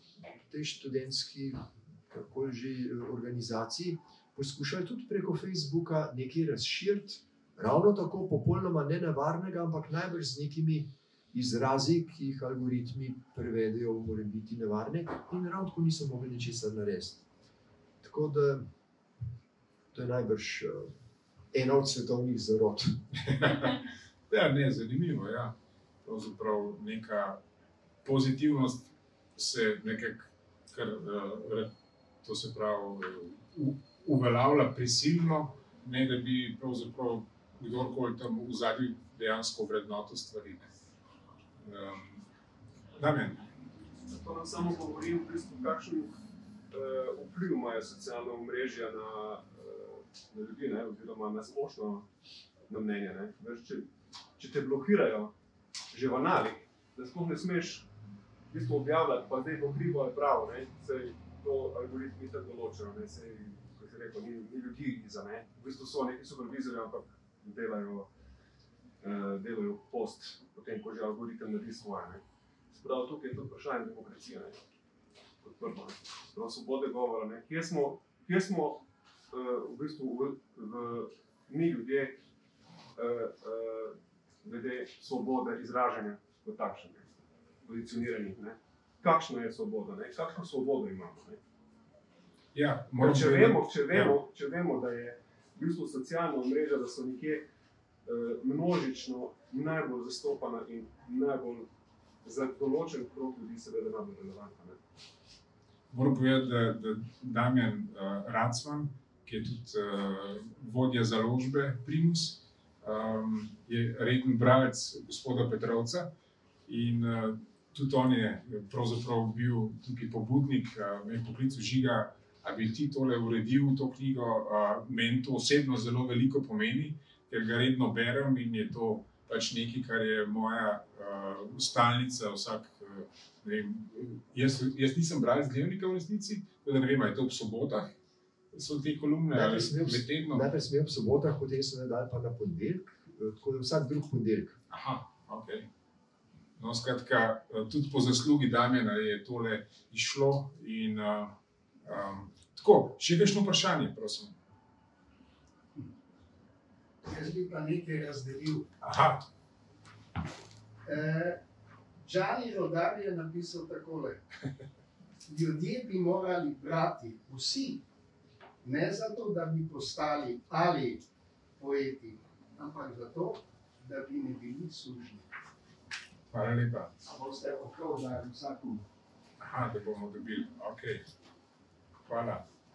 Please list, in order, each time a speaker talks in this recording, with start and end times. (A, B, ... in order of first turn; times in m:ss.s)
0:00.4-0:17.3 A
0:18.0-0:18.7 A
0:19.9-0:20.9 A
0:21.5-0:23.0 A
0:23.3-0:27.4 B
0:28.0-0:31.7 B
0:32.2-0:40.7 B
0:41.6-0:42.2 B
0:43.0-0:43.4 B
0:44.1-0:46.1 C
0:46.7-0:52.1 C
0:52.7-0:55.3 C
0:55.9-0:57.9 C
0:58.5-1:08.1 C
1:09.0-1:14.6 C
1:15.4-1:22.2 C
1:23.0-1:27.1 C
1:27.6-1:31.4 C
1:32.5-1:34.2 B
1:33.0-1:37.5 C
1:38.0-1:41.7 C
1:42.2-1:44.8 C
1:45.9-1:56.1 B
1:56.7-2:17.9 B
2:18.5-2:20.5 B
2:19.3-2:24.6 A
2:24.7-2:25.7 B
2:26.6-2:34.4 B
2:37.0-2:38.7 D
2:38.8-2:39.2 B
2:40.8-2:41.4 D
2:42.0-2:44.2 D
2:45.3-2:47.8 D
2:48.6-2:51.0 D
2:51.6-2:55.3 D
2:56.3-2:56.9 B
2:57.1-2:58.8 D
2:59.4-3:01.0 B
3:02.1-3:02.4 B